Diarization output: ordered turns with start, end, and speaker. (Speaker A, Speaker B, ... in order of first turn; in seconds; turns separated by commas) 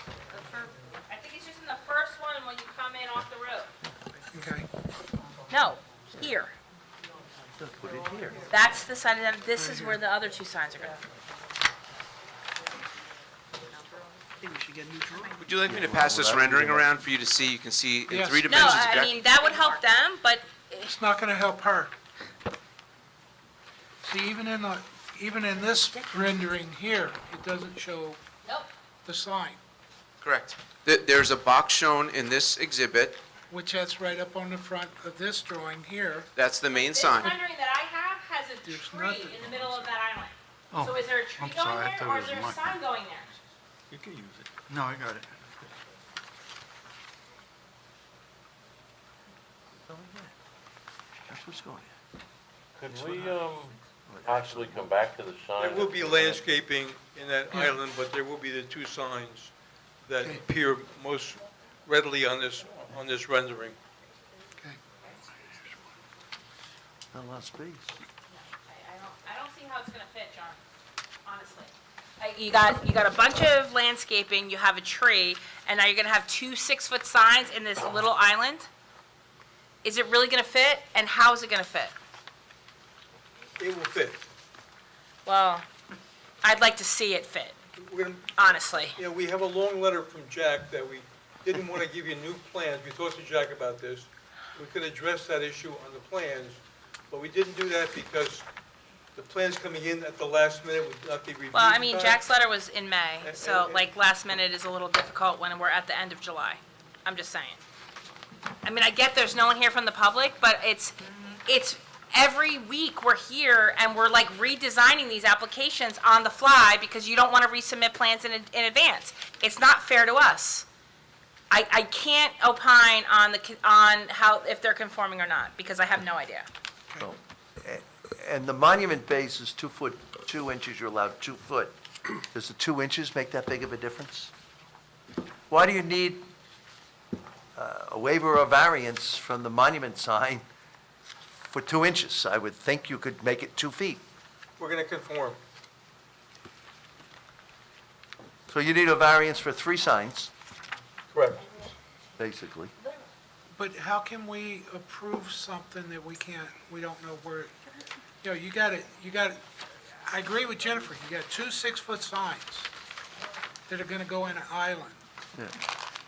Speaker A: 0.3-3.7, Speaker B: 4.3-4.7, Speaker A: 5.5-6.5, Speaker C: 7.6-8.5, Speaker A: 8.5-11.0, Speaker B: 9.6-10.0, Speaker B: 14.4-15.3, Speaker D: 15.4-19.2, Speaker C: 15.7-16.9, Speaker B: 18.1-18.9, Speaker A: 18.5-20.9, Speaker B: 20.8-21.9, Speaker B: 24.0-28.2, Speaker A: 28.4-28.7, Speaker B: 29.1-29.6, Speaker D: 30.2-33.2, Speaker B: 33.5-36.3, Speaker D: 36.4-37.4, Speaker A: 36.6-43.3, Speaker B: 38.7-39.9, Speaker E: 40.7-42.8, Speaker E: 44.7-45.3, Speaker C: 49.9-50.3, Speaker C: 51.3-51.9, Speaker F: 52.8-56.5, Speaker C: 52.9-53.3, Speaker C: 54.1-54.9, Speaker G: 55.6-59.5, Speaker G: 60.0-63.8, Speaker C: 67.1-68.0, Speaker A: 68.3-70.6, Speaker A: 71.2-78.7, Speaker A: 79.8-81.9, Speaker G: 83.6-84.2, Speaker A: 85.2-85.7, Speaker A: 86.4-87.5, Speaker G: 87.8-88.4, Speaker A: 88.4-89.0, Speaker G: 89.0-98.5, Speaker G: 99.2-102.2, Speaker A: 101.5-107.6, Speaker G: 103.2-103.9, Speaker A: 108.6-120.7, Speaker A: 121.5-126.5, Speaker C: 127.0-131.7, Speaker C: 132.3-134.3, Speaker C: 135.5-136.3, Speaker C: 137.6-140.4, Speaker C: 141.4-144.0, Speaker G: 144.6-145.4, Speaker C: 148.5-150.3, Speaker G: 151.1-151.5, Speaker C: 152.2-152.7, Speaker B: 153.5-157.5, Speaker B: 158.2-159.4, Speaker B: 160.0-162.7, Speaker B: 163.7-165.0